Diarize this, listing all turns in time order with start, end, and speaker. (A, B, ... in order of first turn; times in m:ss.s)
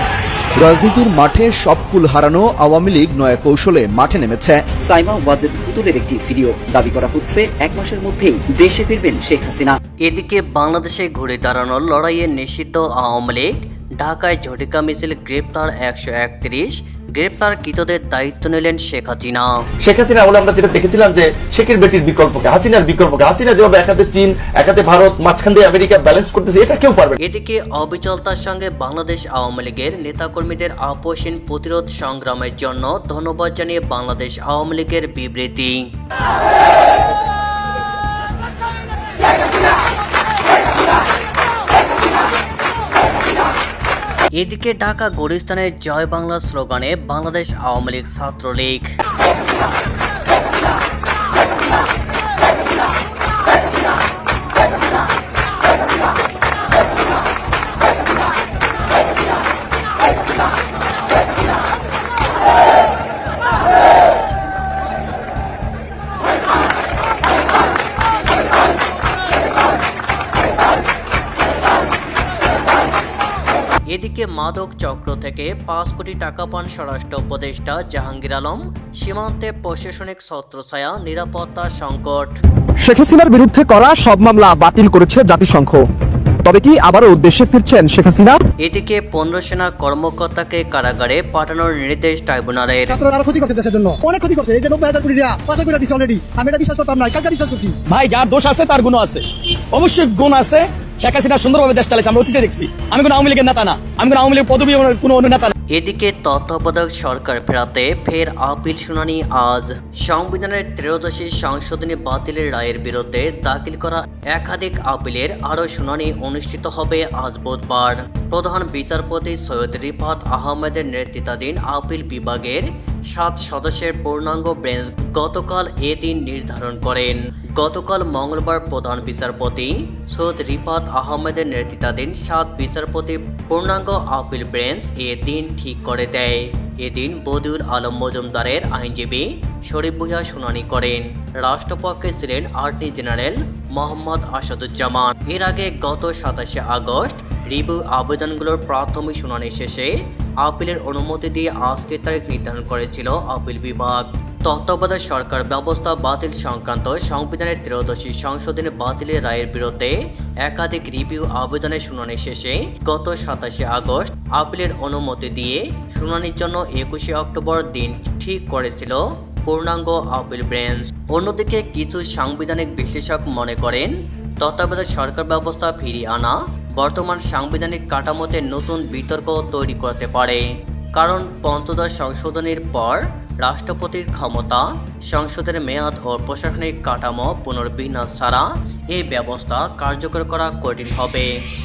0:00.6-0:04.6 A
0:04.8-0:09.8 B
0:10.0-0:19.6 C
0:19.8-0:27.2 D
0:27.2-0:35.8 C
0:44.4-0:48.9 C
1:13.9-1:22.4 C
1:22.8-1:25.8 E
1:26.4-1:28.4 E
1:28.6-1:33.0 C
1:32.9-1:37.7 F
1:37.9-1:45.5 G
1:45.7-3:11.4 C